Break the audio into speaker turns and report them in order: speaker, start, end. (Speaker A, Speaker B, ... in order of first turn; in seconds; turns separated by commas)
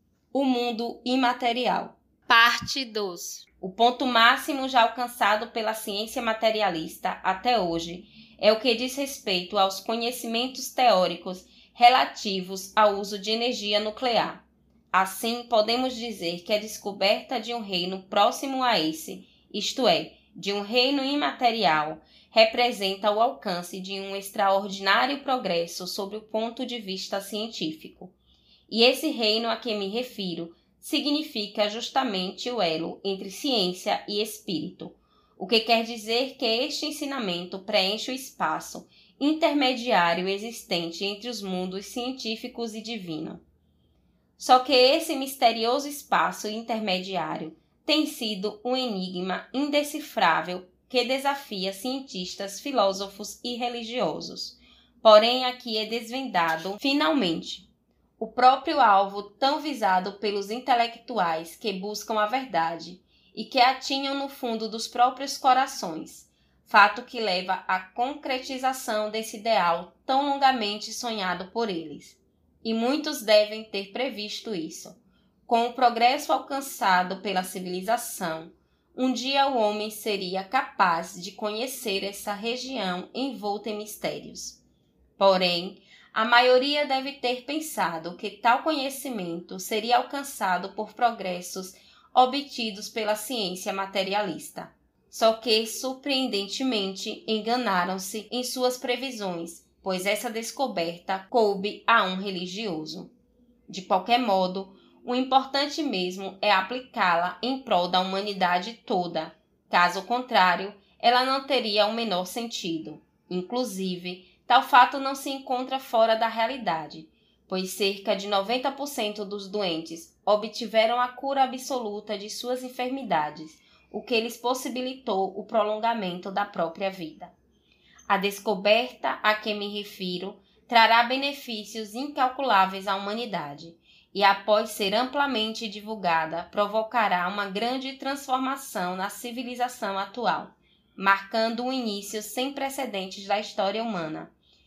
Speaker A: 0.3-28.1, Speaker A: 28.7-43.4, Speaker A: 44.4-57.7, Speaker A: 58.2-84.6, Speaker A: 85.2-103.1, Speaker A: 103.7-127.3, Speaker A: 128.1-144.3